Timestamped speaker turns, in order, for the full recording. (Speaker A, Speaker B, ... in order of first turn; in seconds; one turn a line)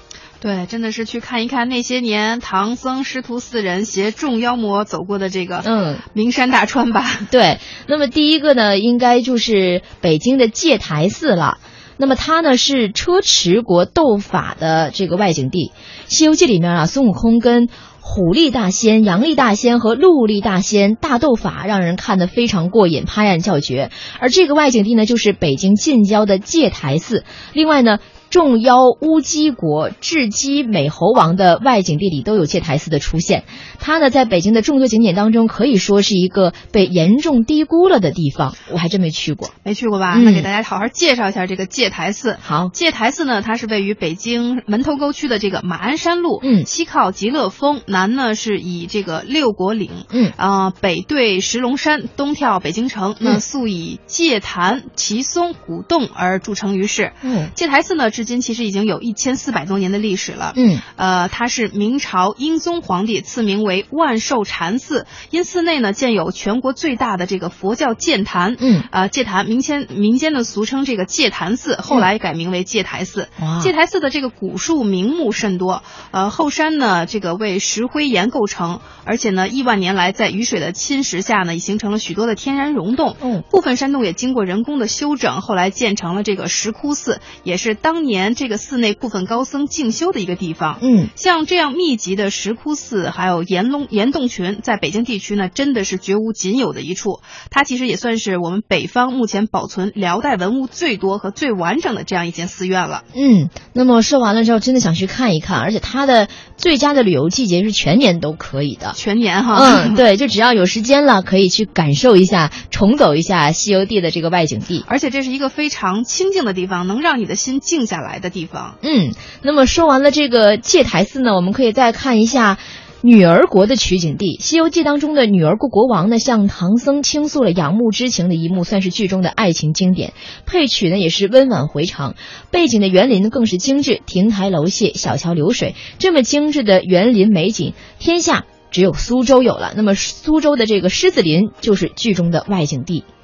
Speaker A: 0.4-7.3
Speaker B: 5.6-6.0
Speaker B: 7.3-39.5
Speaker A: 39.6-103.0
Speaker B: 40.1-40.5
Speaker B: 42.4-42.7
Speaker B: 46.4-46.7
Speaker B: 57.2-57.5
Speaker B: 60.5-60.8
Speaker B: 68.6-68.9
Speaker B: 73.4-73.7
Speaker B: 90.8-91.1
Speaker B: 103.1-109.0
Speaker A: 108.9-110.0
Speaker B: 109.5-114.8
Speaker A: 114.8-118.8
Speaker B: 118.8-143.0